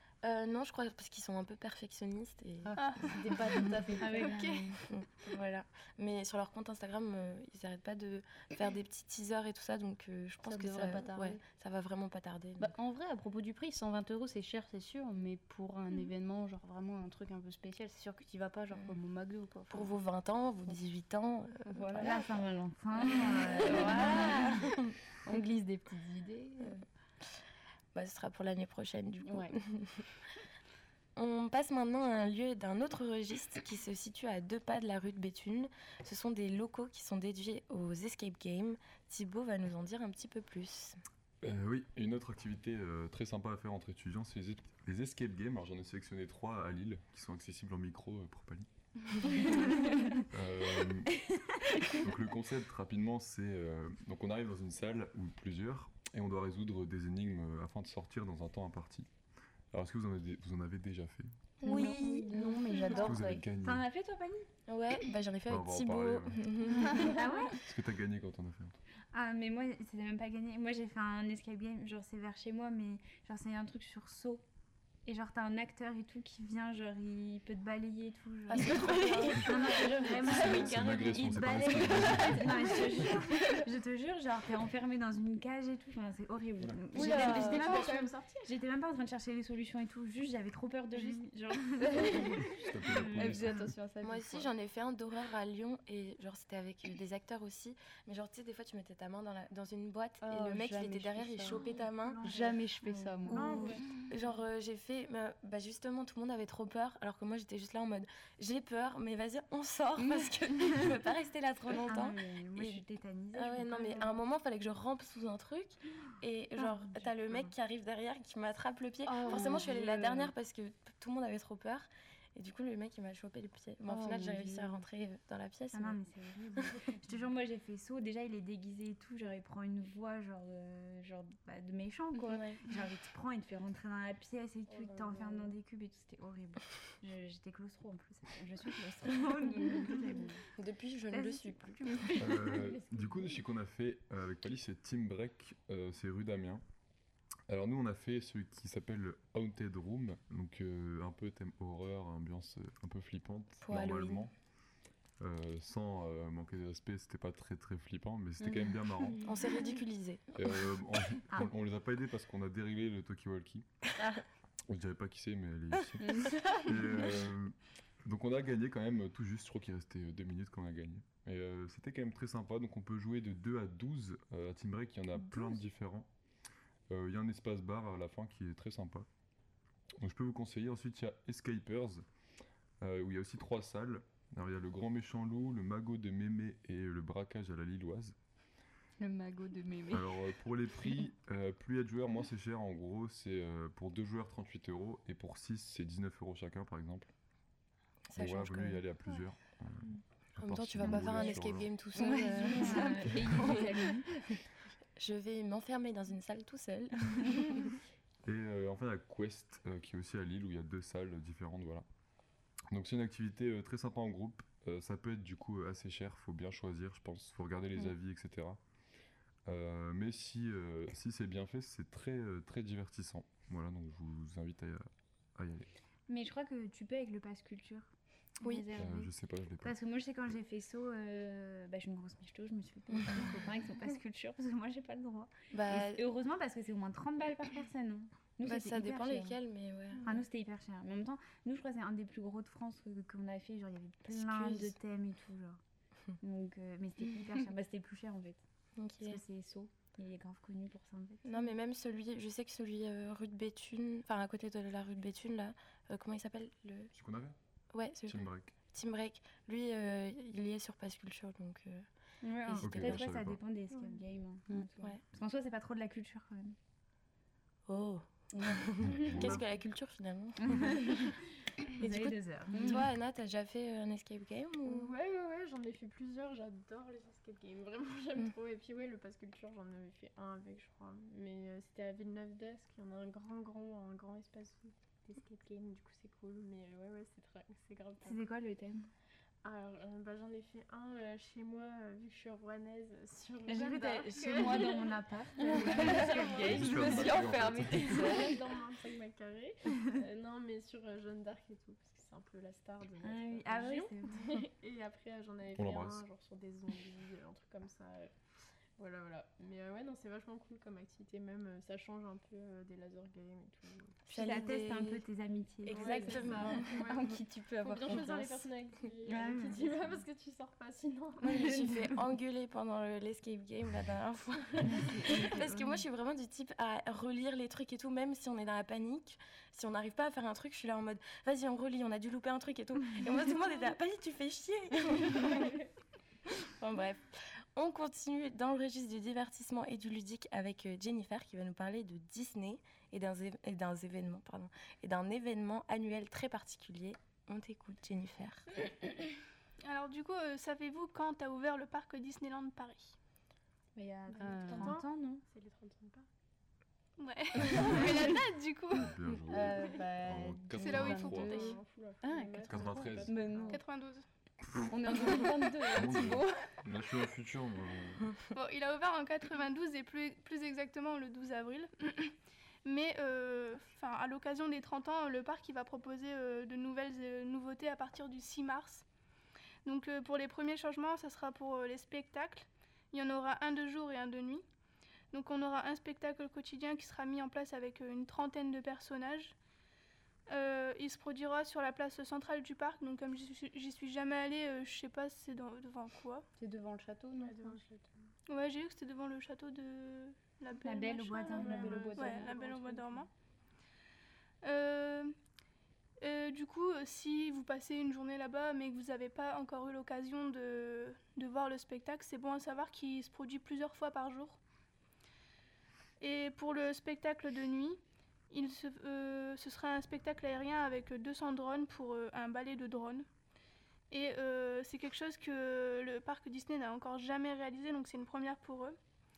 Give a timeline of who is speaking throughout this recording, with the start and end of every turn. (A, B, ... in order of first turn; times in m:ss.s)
0:00.2-0:04.1 A
0:02.6-0:04.8 B
0:02.8-0:03.6 C
0:04.0-0:04.8 D
0:04.1-0:04.8 C
0:04.9-0:12.7 A
0:10.5-0:11.4 B
0:12.6-0:19.9 B
0:19.7-0:22.3 A
0:21.7-0:22.3 B
0:21.9-0:24.6 D
0:23.1-0:24.6 B
0:23.6-0:24.8 A
0:25.2-0:26.8 B
0:27.9-0:30.1 A
0:29.2-0:29.6 B
0:31.2-0:41.0 A
0:41.4-0:49.5 E
0:50.3-0:51.3 E
0:52.0-0:59.1 E
0:59.7-1:01.3 E
1:01.6-1:03.3 A
1:01.6-1:03.5 B
1:01.7-1:02.0 D
1:03.0-1:03.8 E
1:03.6-1:04.5 D
1:04.7-1:07.1 A
1:05.5-1:06.4 E
1:07.1-1:07.6 D
1:07.5-1:08.8 E
1:09.1-1:14.4 D
1:15.1-1:33.5 D
1:18.5-1:20.6 A
1:18.6-1:22.2 B
1:20.3-1:22.6 E
1:27.0-1:27.9 B
1:27.0-1:28.4 F
1:27.1-1:27.4 A
1:31.8-1:34.5 B
1:32.4-1:33.6 E
1:34.0-1:42.3 A
1:40.2-1:41.7 B
1:41.7-1:43.9 D
1:42.2-1:43.7 B
1:43.3-1:52.8 A
1:43.4-1:43.8 F
1:50.0-1:50.3 B
1:51.9-1:54.2 D
1:53.3-2:06.0 A
1:59.0-2:00.3 B
2:03.9-2:04.8 B
2:05.7-2:20.4 D
2:14.7-2:15.5 F
2:20.6-2:22.1 A
2:21.1-2:22.3 D
2:22.2-2:26.6 E
2:22.2-2:23.4 F
2:27.5-2:34.4 E
2:33.6-2:34.3 A
2:35.2-2:39.4 E
2:38.4-2:38.8 B
2:39.2-2:40.7 A
2:40.4-2:43.7 E
2:44.7-2:56.1 E
2:46.0-2:46.9 B
2:56.9-2:59.1 E
3:00.0-3:02.1 E
3:02.8-3:08.2 E
3:09.0-3:10.2 B
3:09.9-3:17.1 E
3:18.1-3:18.8 A
3:18.2-3:21.8 E
3:20.4-3:23.7 A
3:20.8-3:21.3 B
3:21.9-3:23.8 B
3:22.0-3:24.2 D
3:25.0-3:27.7 A
3:28.2-3:31.9 E
3:32.7-3:38.6 E
3:39.4-3:45.7 E
3:46.1-3:59.4 D
3:48.8-3:49.8 E
3:55.5-3:56.0 A
3:58.4-4:00.0 A
4:00.0-4:05.6 D
4:04.1-4:04.7 A
4:06.2-4:08.4 D
4:08.8-4:09.2 A
4:09.0-4:11.3 D
4:11.2-4:16.9 A
4:16.9-4:17.4 E
4:17.7-4:21.9 A
4:18.1-4:18.6 E
4:22.2-4:23.0 B
4:22.3-4:26.6 D
4:22.6-4:23.4 E
4:27.7-4:30.9 A
4:28.4-4:29.3 B
4:28.8-4:29.4 E
4:30.4-4:31.2 D
4:31.8-4:32.8 D
4:31.8-4:34.9 A
4:32.5-4:32.8 B
4:34.7-4:48.2 F
4:48.0-4:48.9 D
4:49.4-5:08.1 F
4:53.4-4:57.3 D
4:55.4-4:58.5 B
4:55.8-4:58.2 E
5:03.0-5:04.3 D
5:05.6-5:06.0 E
5:08.8-5:14.0 F
5:14.1-5:15.1 A
5:14.1-5:17.0 D
5:15.6-5:17.0 A
5:15.7-5:21.8 F
5:16.9-5:18.5 B
5:17.8-5:18.2 D
5:19.0-5:19.8 D
5:21.2-5:35.6 A
5:24.7-5:25.8 D
5:36.4-5:48.5 A
5:49.6-5:53.0 C
5:53.8-5:55.2 D
5:54.1-5:56.1 F
5:54.2-5:54.8 B
5:57.0-5:59.0 C
5:57.6-5:57.9 E
5:58.7-6:01.5 E
5:59.3-6:03.6 B
6:00.6-6:01.6 C
6:00.8-6:03.6 F
6:02.4-6:03.2 E
6:03.3-6:04.1 C
6:04.7-6:06.6 B
6:05.7-6:08.1 E
6:08.3-6:18.8 C
6:19.6-6:24.4 C
6:25.1-6:29.4 C
6:30.3-6:36.2 C
6:36.4-6:37.6 B
6:37.2-6:38.0 F
6:38.3-6:43.1 C
6:40.6-6:42.0 D
6:41.3-6:42.6 F
6:41.4-6:43.0 B
6:44.4-6:45.2 C
6:46.0-6:54.4 C
6:56.0-7:03.1 C
7:03.9-7:08.8 C